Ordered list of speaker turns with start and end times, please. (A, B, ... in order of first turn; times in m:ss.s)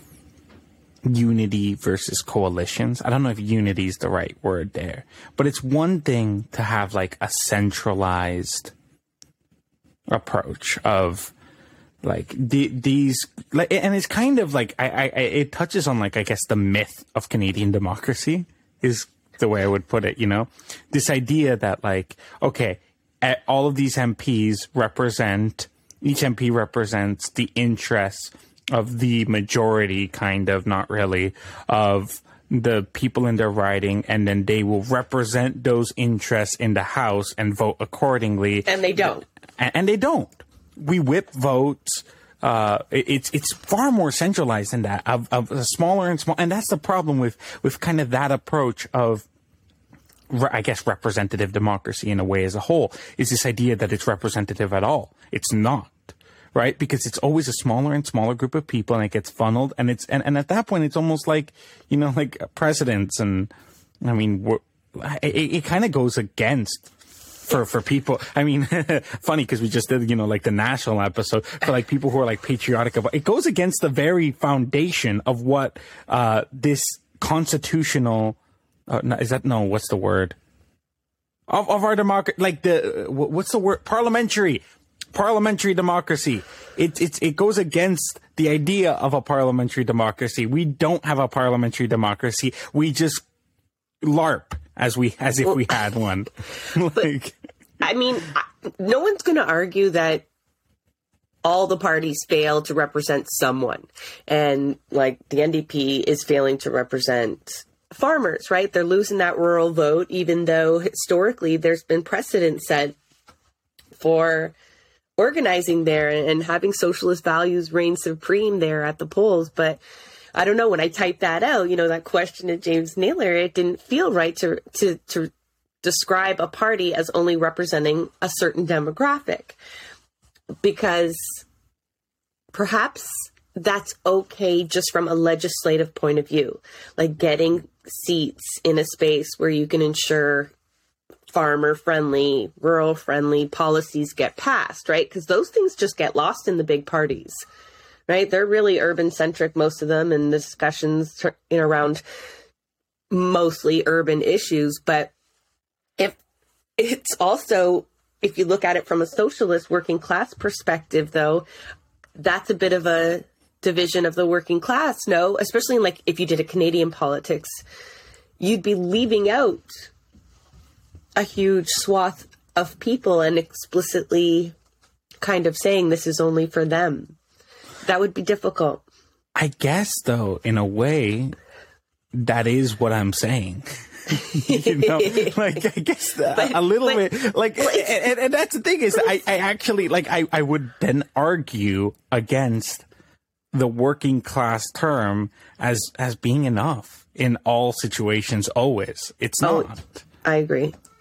0:01.0-0:08.7 A
0:10.1-0:11.3 A
0:12.0-0:49.2 A
0:38.6-0:39.2 B
0:50.3-1:03.5 A
1:04.0-1:06.9 A
1:07.5-1:18.4 A
1:18.9-1:20.4 A
1:21.5-1:24.6 A
1:25.1-1:33.2 A
1:34.0-1:37.4 A
1:37.8-1:40.2 B
1:41.4-1:53.0 B
1:54.0-1:54.5 B
1:55.2-1:59.8 B
2:00.3-2:05.3 B
2:05.8-2:09.6 B
2:10.6-2:11.4 B
2:12.5-2:20.5 B
2:21.3-2:27.4 B
2:28.1-2:32.0 B
2:33.1-2:35.1 B
2:36.8-2:41.4 B
2:42.2-2:47.6 B
2:48.4-2:49.9 B
2:51.2-2:54.5 B
2:55.2-2:57.2 B
2:57.8-2:58.8 B
2:59.4-3:01.3 A
3:02.1-3:12.8 A
3:04.2-3:05.4 B
3:06.3-3:08.1 B
3:13.5-3:20.0 A
3:19.4-3:19.7 B
3:20.2-3:20.7 B